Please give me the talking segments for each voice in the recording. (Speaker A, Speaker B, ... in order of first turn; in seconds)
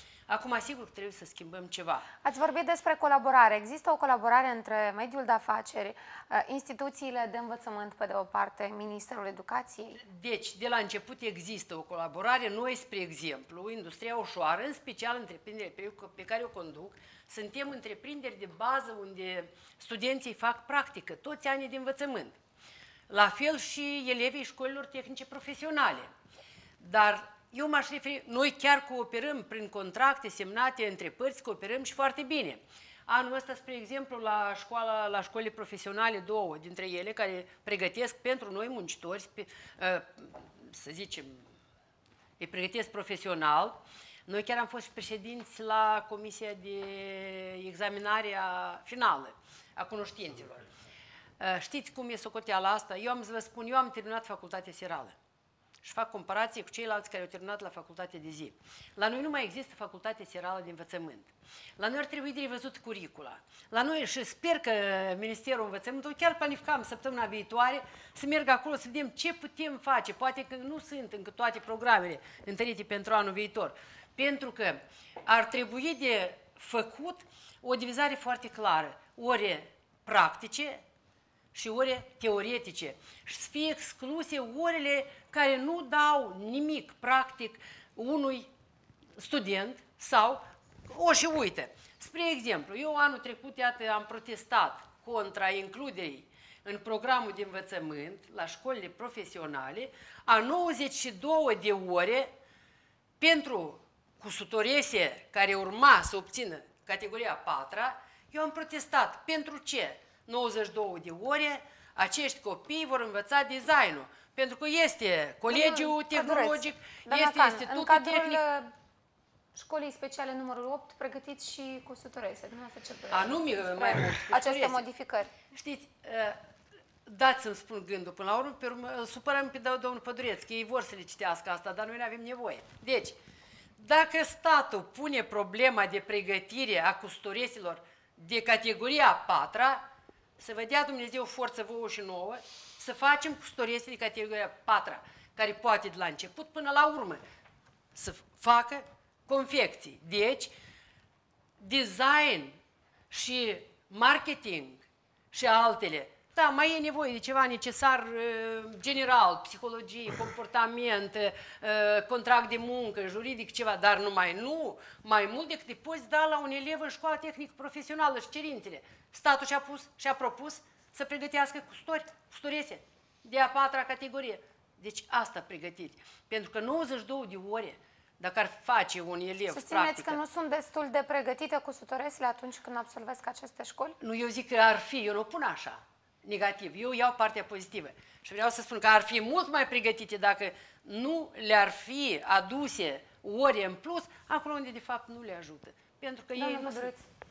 Speaker A: 0.3-2.1, 10.0-22.4, 23.1-26.1, 26.8-41.4, 42.4-50.7, 51.4-55.2, 55.8-80.8, 81.5-88.5, 89.2-102.3, 103.2-118.4, 123.1-124.9, 125.5-126.4, 127.1-133.2, 133.8-139.9, 140.4-147.2, 147.9-150.6, 151.6-152.6, 153.1-180.2, 184.0-196.9
Speaker B: 2.2-10.0, 115.5-118.7, 119.5-125.3, 179.5-184.0, 196.3-197.0